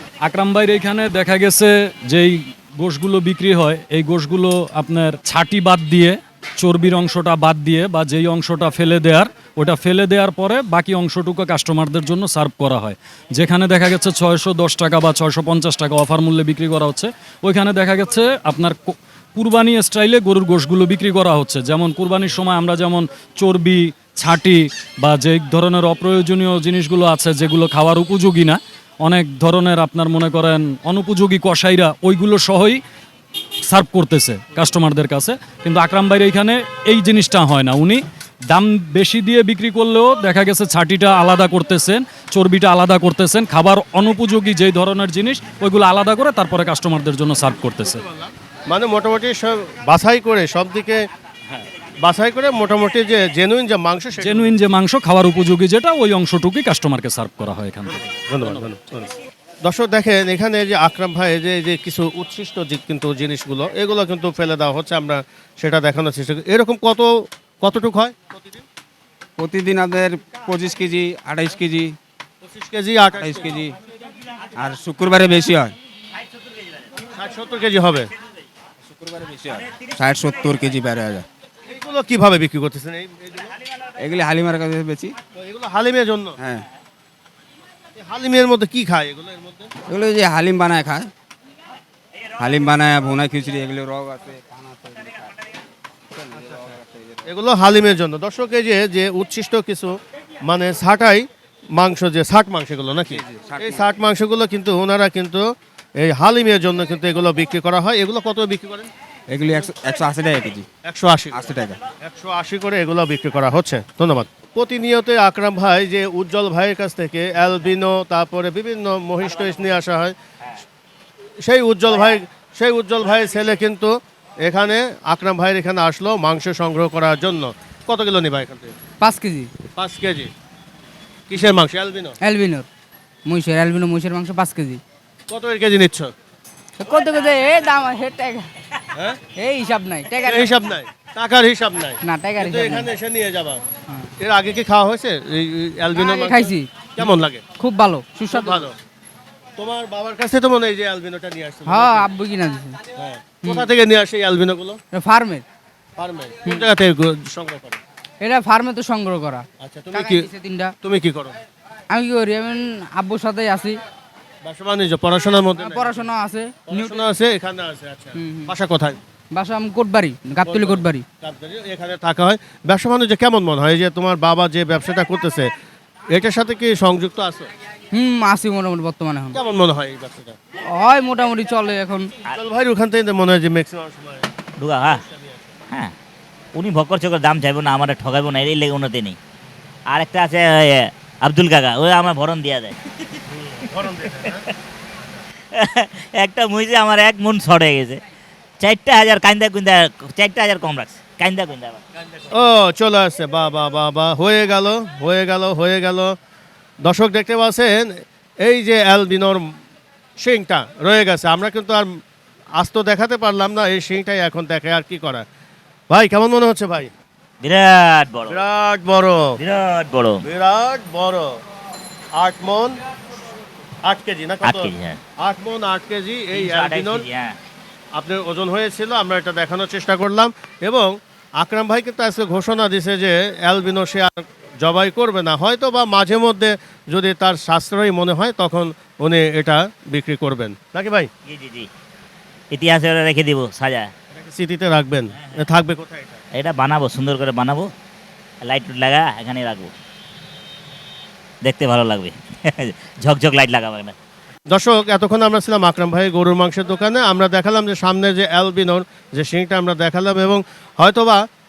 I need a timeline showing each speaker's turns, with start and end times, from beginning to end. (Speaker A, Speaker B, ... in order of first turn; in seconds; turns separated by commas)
Speaker A: 0.2-32.8, Speaker A: 33.7-48.0, Speaker B: 48.7-51.0, Speaker B: 52.0-54.5, Speaker A: 54.2-58.0, Speaker B: 57.9-59.1, Speaker B: 59.6-67.1, Speaker B: 67.6-68.6, Speaker C: 69.4-72.0, Speaker B: 72.4-73.5, Speaker C: 73.2-73.7, Speaker C: 74.5-75.7, Speaker B: 77.1-78.1, Speaker C: 78.9-81.2, Speaker B: 81.7-83.5, Speaker C: 84.0-85.1, Speaker B: 85.3-86.3, Speaker C: 86.4-86.6, Speaker B: 88.0-89.7, Speaker C: 89.9-91.1, Speaker C: 92.4-95.1, Speaker C: 96.2-97.2, Speaker B: 97.2-99.9, Speaker B: 100.5-101.2, Speaker B: 101.8-105.4, Speaker C: 103.1-103.8, Speaker B: 106.0-108.9, Speaker C: 109.3-110.7, Speaker B: 110.9-111.4, Speaker C: 111.3-111.8, Speaker B: 112.0-120.1, Speaker B: 121.4-128.7, Speaker D: 129.0-129.5, Speaker B: 129.8-130.3, Speaker B: 131.3-132.1, Speaker D: 132.2-132.7, Speaker D: 133.3-134.8, Speaker B: 135.3-136.1, Speaker D: 136.8-138.5, Speaker D: 139.4-140.7, Speaker B: 140.3-143.6, Speaker D: 142.0-142.9, Speaker B: 144.2-147.4, Speaker D: 145.9-148.7, Speaker B: 148.3-148.7, Speaker B: 149.6-152.1, Speaker D: 151.7-152.8, Speaker B: 153.0-154.8, Speaker D: 153.4-153.7, Speaker D: 154.9-155.4, Speaker B: 156.0-157.8, Speaker D: 158.2-160.7, Speaker B: 159.6-160.3, Speaker B: 160.8-161.3, Speaker D: 161.9-163.8, Speaker B: 164.4-166.1, Speaker D: 165.6-167.1, Speaker B: 166.7-169.0, Speaker D: 168.1-168.5, Speaker D: 169.3-171.0, Speaker B: 170.4-175.5, Speaker B: 176.1-177.5, Speaker D: 177.9-179.4, Speaker B: 179.3-180.4, Speaker D: 180.7-182.1, Speaker B: 182.3-184.3, Speaker E: 184.6-185.0, Speaker B: 184.8-185.5, Speaker E: 186.5-189.2, Speaker E: 189.9-192.8, Speaker B: 193.3-194.5, Speaker E: 195.5-198.0, Speaker E: 198.6-201.8, Speaker B: 202.2-206.1, Speaker B: 206.8-209.5, Speaker B: 210.2-212.0, Speaker B: 212.6-215.2, Speaker B: 215.9-216.9, Speaker E: 217.4-218.4, Speaker B: 218.3-219.4, Speaker E: 219.4-220.2, Speaker B: 220.2-221.3, Speaker B: 222.2-222.8, Speaker B: 223.8-227.1, Speaker E: 224.4-225.0, Speaker E: 226.3-227.3, Speaker B: 227.9-241.1, Speaker E: 241.2-241.7, Speaker E: 242.5-243.9, Speaker B: 244.1-246.2, Speaker E: 246.3-247.7, Speaker E: 248.4-249.7, Speaker E: 251.4-253.9, Speaker B: 254.5-261.2